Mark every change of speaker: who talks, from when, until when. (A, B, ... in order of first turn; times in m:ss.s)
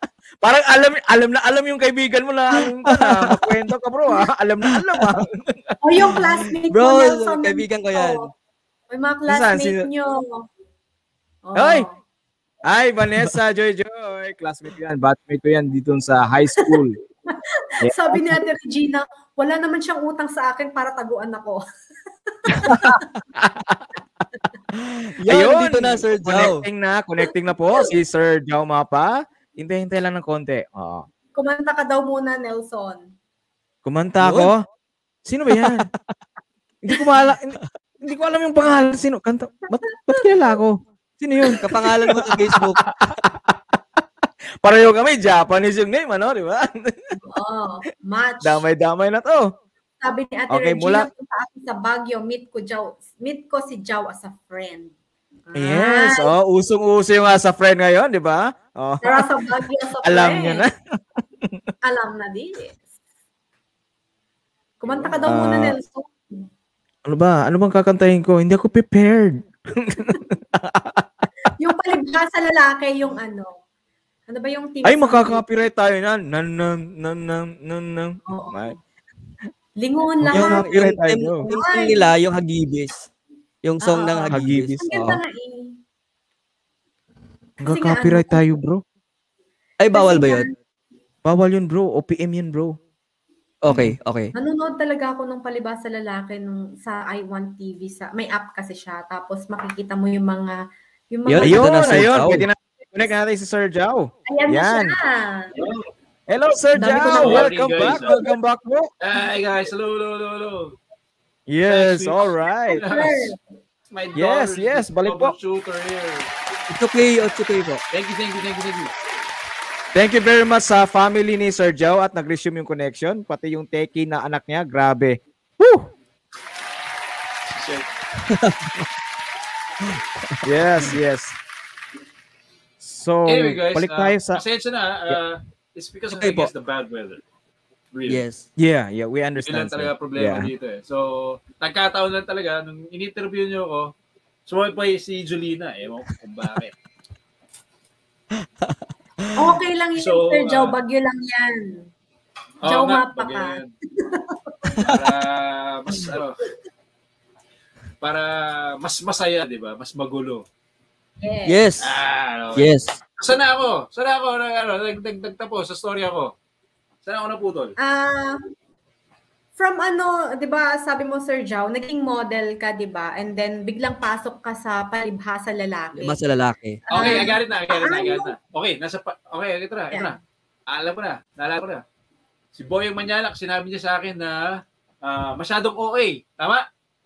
0:00.4-0:05.5 A
0:03.0-0:03.4 B
0:05.8-0:08.2 C
0:06.7-0:08.3 B
0:08.9-0:10.2 C
0:09.3-0:09.8 A
0:11.4-0:11.9 C
0:11.6-0:11.8 A
0:12.7-0:17.0 A
0:17.8-0:18.4 A
0:17.9-0:21.6 C
0:22.3-0:23.0 C
0:23.4-0:23.8 A
0:25.2-0:26.6 B
0:25.3-0:31.0 A
0:31.3-0:33.0 C
0:33.8-0:34.6 A
0:34.2-0:34.5 B
0:35.2-0:35.8 A
0:36.8-0:41.6 A
0:41.6-0:42.8 B
0:42.2-0:42.8 A
0:44.6-0:46.9 A
0:47.2-0:48.6 C
0:48.4-0:49.4 A
0:50.0-0:54.9 C
0:50.5-0:51.0 A
0:55.5-0:56.3 C
0:55.6-0:59.2 A
0:59.0-1:00.6 C
1:00.0-1:00.7 A
1:01.8-1:02.8 C
1:04.8-1:06.4 C
1:05.2-1:05.7 A
1:07.0-1:09.4 A
1:10.0-1:10.8 A
1:11.6-1:13.5 C
1:14.3-1:15.4 C
1:14.8-1:18.7 A
1:18.3-1:18.7 C
1:19.8-1:20.7 C
1:20.2-1:21.4 A
1:20.3-1:23.1 B
1:21.5-1:22.1 C
1:23.6-1:25.2 B
1:23.8-1:24.3 C
1:24.3-1:24.8 A
1:24.8-1:25.7 C
1:27.6-1:28.8 A
1:27.6-1:28.4 C
1:29.8-1:30.5 B
1:29.9-1:30.5 C
1:31.2-1:32.7 A
1:33.6-1:34.3 B
1:34.4-1:40.5 C
1:41.1-1:42.1 C
1:41.2-1:42.4 B
1:41.4-1:44.9 A
1:44.3-1:45.6 C
1:45.6-1:45.8 D
1:46.3-1:48.9 A
1:46.8-1:47.5 C
1:46.9-1:48.2 D
1:49.0-1:50.7 D
1:51.5-1:52.8 A
1:51.7-1:53.3 D
1:52.8-1:53.4 C
1:53.9-1:56.3 D
1:54.2-1:55.3 A
1:56.7-1:57.8 B
1:57.9-1:58.9 D
1:59.9-2:05.8 A
2:07.5-2:07.9 D
2:08.3-2:08.9 B
2:10.4-2:11.3 A
2:12.8-2:14.4 A
2:13.3-2:17.2 D
2:16.2-2:16.5 A
2:17.9-2:18.2 D
2:18.1-2:18.5 B
2:18.6-2:20.5 A
2:19.4-2:23.9 D
2:24.5-2:26.7 D
2:29.4-2:31.8 C
2:30.0-2:30.7 D
2:32.6-2:33.7 D
2:32.6-2:34.9 C
2:34.9-2:36.4 D
2:38.0-2:40.4 D
2:41.2-2:41.6 C
2:41.5-2:41.9 B
2:41.8-2:46.3 D
2:42.6-2:43.0 B
2:47.0-2:47.7 D
2:47.8-2:48.4 C
2:49.6-2:56.2 C
2:56.0-2:57.2 B
2:56.9-3:00.2 D
2:56.9-2:58.3 C
3:00.7-3:01.8 D
3:02.5-3:04.4 D
3:05.0-3:06.6 D